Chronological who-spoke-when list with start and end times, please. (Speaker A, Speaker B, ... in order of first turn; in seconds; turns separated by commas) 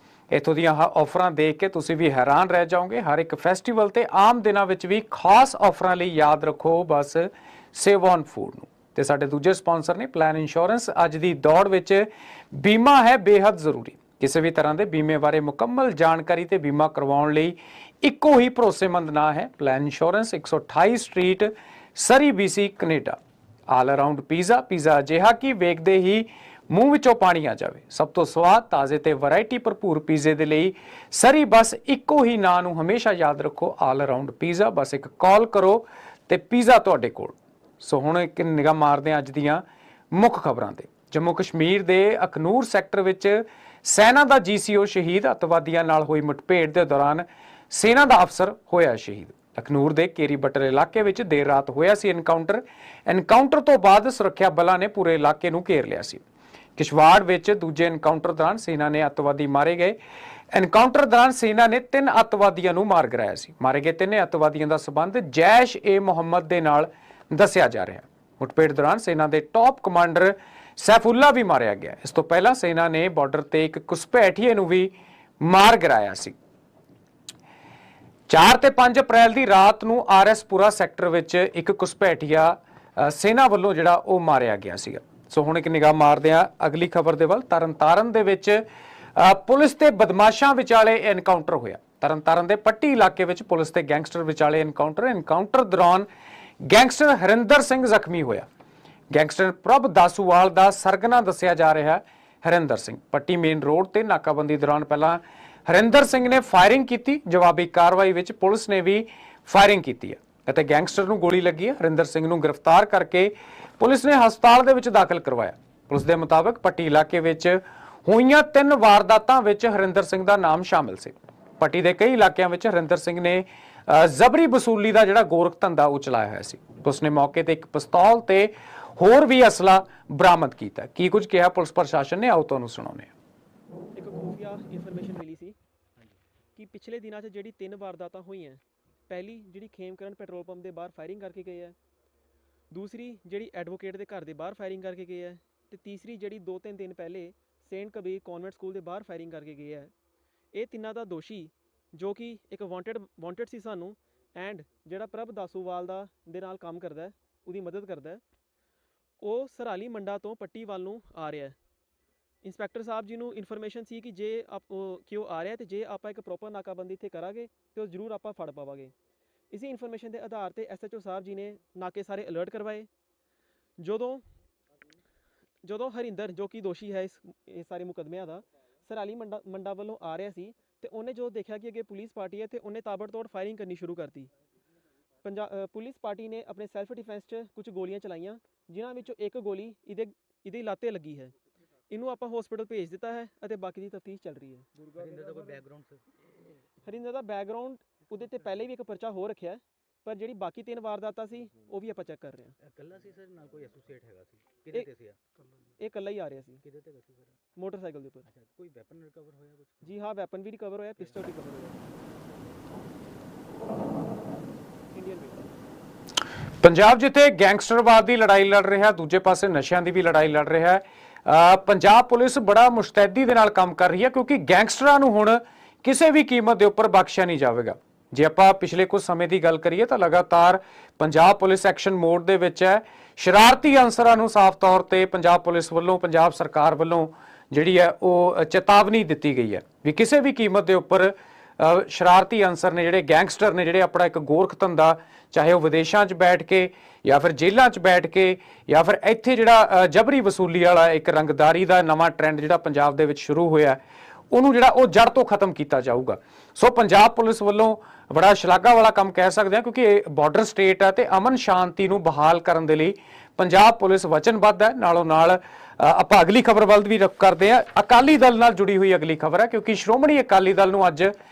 Speaker A: 0.3-23.2, Speaker A: 23.7-56.2, Speaker A: 56.8-60.0, Speaker A: 60.5-76.3, Speaker A: 78.3-88.6, Speaker A: 89.2-96.1, Speaker A: 96.7-98.5, Speaker A: 99.1-133.1, Speaker B: 133.9-135.6, Speaker B: 136.6-141.8, Speaker B: 142.7-149.9, Speaker B: 150.5-158.2, Speaker B: 159.2-161.6, Speaker B: 162.4-168.9, Speaker B: 169.5-172.9, Speaker B: 173.8-174.2, Speaker B: 175.6-184.3, Speaker B: 185.2-191.3, Speaker B: 191.9-194.7, Speaker C: 194.8-196.6, Speaker B: 196.8-202.5, Speaker C: 198.0-198.6, Speaker C: 202.6-205.2, Speaker B: 205.8-206.6, Speaker C: 206.5-207.4, Speaker B: 207.6-208.3, Speaker C: 208.2-210.0, Speaker B: 209.8-211.8, Speaker C: 211.0-211.3, Speaker B: 214.9-215.5, Speaker A: 216.6-253.8, Speaker A: 254.3-271.1